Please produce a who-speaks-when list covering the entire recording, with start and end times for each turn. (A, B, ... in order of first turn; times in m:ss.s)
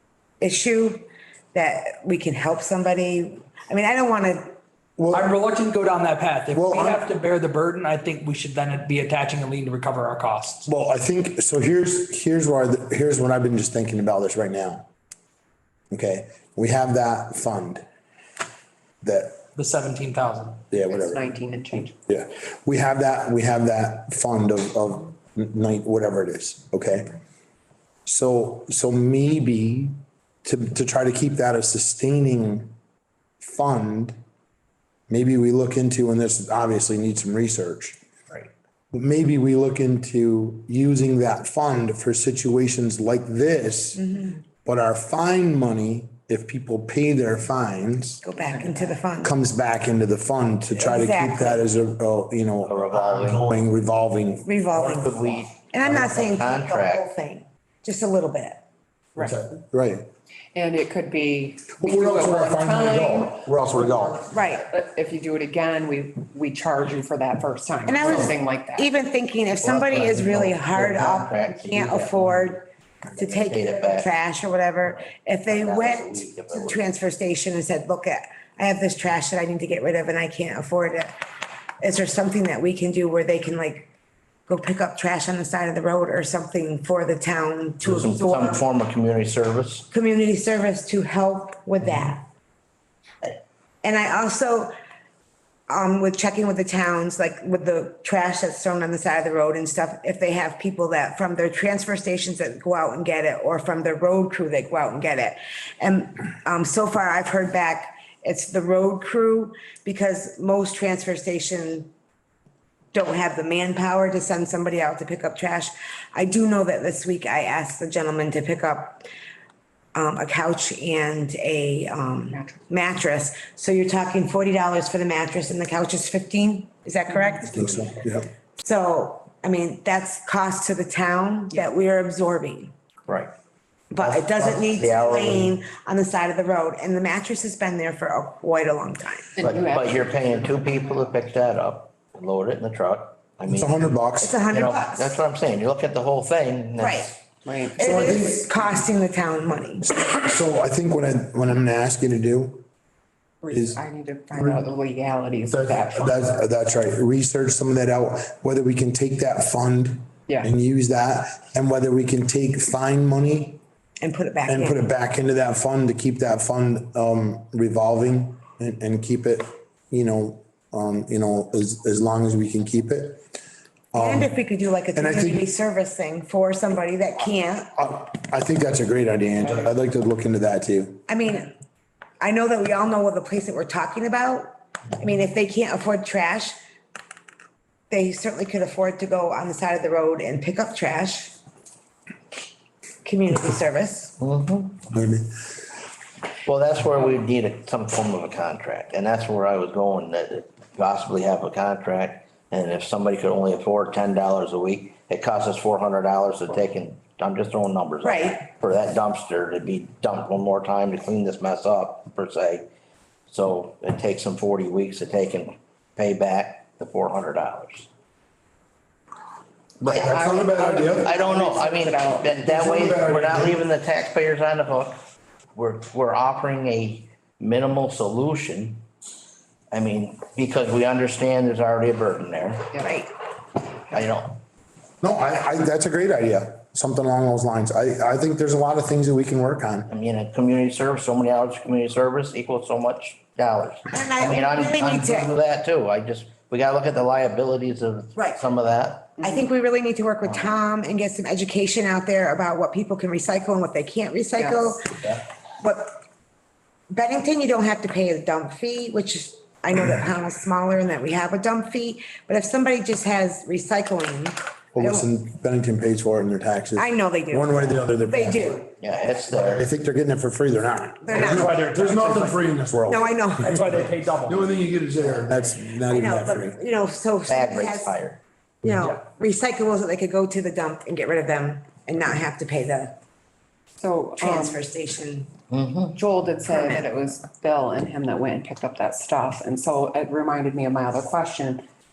0:00.4-0:04.6 A
0:05.0-0:05.3 B
0:05.1-0:10.7 C
0:06.5-0:07.0 B
0:10.7-0:14.8 B
0:15.9-0:17.8 B
0:19.0-0:19.4 B
0:19.6-0:20.6 C
0:20.7-0:21.2 B
0:20.9-0:22.0 D
0:22.1-0:27.1 B
0:28.0-0:32.7 B
0:33.4-0:34.2 B
0:35.1-0:38.0 B
0:38.9-0:44.1 B
0:44.0-0:44.4 A
0:44.6-0:48.2 B
0:48.2-0:49.3 A
0:48.5-0:48.9 E
0:49.2-0:54.5 B
0:50.7-0:51.6 A
0:52.6-0:53.5 E
0:54.4-0:58.6 A
0:54.7-0:57.0 E
0:55.8-0:56.3 B
0:59.2-1:00.1 B
1:00.5-1:08.9 D
1:01.8-1:04.3 B
1:04.3-1:04.7 A
1:07.8-1:21.2 A
1:08.0-1:08.3 E
1:09.6-1:12.6 E
1:13.2-1:14.1 E
1:14.9-1:16.8 E
1:21.8-1:23.9 A
1:24.5-1:28.6 A
1:27.8-1:29.9 E
1:29.9-1:32.3 A
1:33.8-1:34.7 A
1:35.7-1:51.9 A
1:52.9-1:59.0 A
1:59.9-2:07.9 A
2:02.3-2:02.6 D
2:07.5-2:08.3 B
2:08.6-2:12.7 A
2:13.1-2:13.3 E
2:13.9-2:19.4 A
2:14.0-2:15.6 E
2:19.4-2:21.0 D
2:19.4-2:23.9 E
2:23.4-2:24.4 B
2:24.2-2:25.2 A
2:24.5-2:27.2 E
2:26.8-2:27.1 A
2:27.4-2:27.8 D
2:27.7-2:28.9 B
2:27.7-2:29.8 A
2:29.8-2:32.6 B
2:33.4-2:36.2 D
2:33.5-2:33.8 B
2:35.5-2:43.6 B
2:44.0-2:44.8 A
2:44.4-2:53.3 B
2:53.9-2:54.3 B
2:53.9-2:57.7 A
2:54.9-2:55.5 B
2:57.7-3:01.0 B
3:01.1-3:01.6 A
3:02.2-3:06.6 A
3:07.9-3:11.4 A
3:13.0-3:14.2 A
3:14.2-3:14.8 E
3:14.9-3:15.3 B
3:16.4-3:32.7 E
3:28.0-3:28.4 A
3:33.3-3:37.9 E
3:39.8-3:41.1 B
3:39.8-3:43.1 D
3:39.9-3:40.1 E
3:41.0-3:45.0 E
3:42.7-3:43.6 B
3:45.5-3:48.8 E
3:49.7-3:52.8 E
3:53.9-3:54.4 E
3:55.0-3:59.9 B
3:59.9-4:09.2 E
4:03.9-4:05.3 A
4:08.1-4:08.4 A
4:09.2-4:09.5 D
4:09.2-4:15.0 A
4:10.2-4:10.6 E
4:14.4-4:14.8 D
4:15.6-4:16.0 A
4:16.9-4:25.1 A
4:24.7-4:28.7 B
4:26.8-4:28.7 A
4:28.8-4:29.6 E
4:29.3-4:33.6 B
4:31.0-4:32.1 A
4:31.2-4:32.4 C
4:32.8-4:33.7 A
4:33.4-4:34.6 C
4:34.3-4:36.6 B
4:35.8-4:38.0 A
4:37.3-4:38.2 E
4:38.6-4:43.0 A
4:43.8-4:44.6 D
4:44.2-4:45.3 A
4:45.5-4:46.0 E
4:45.9-4:51.6 D
4:46.5-4:46.8 A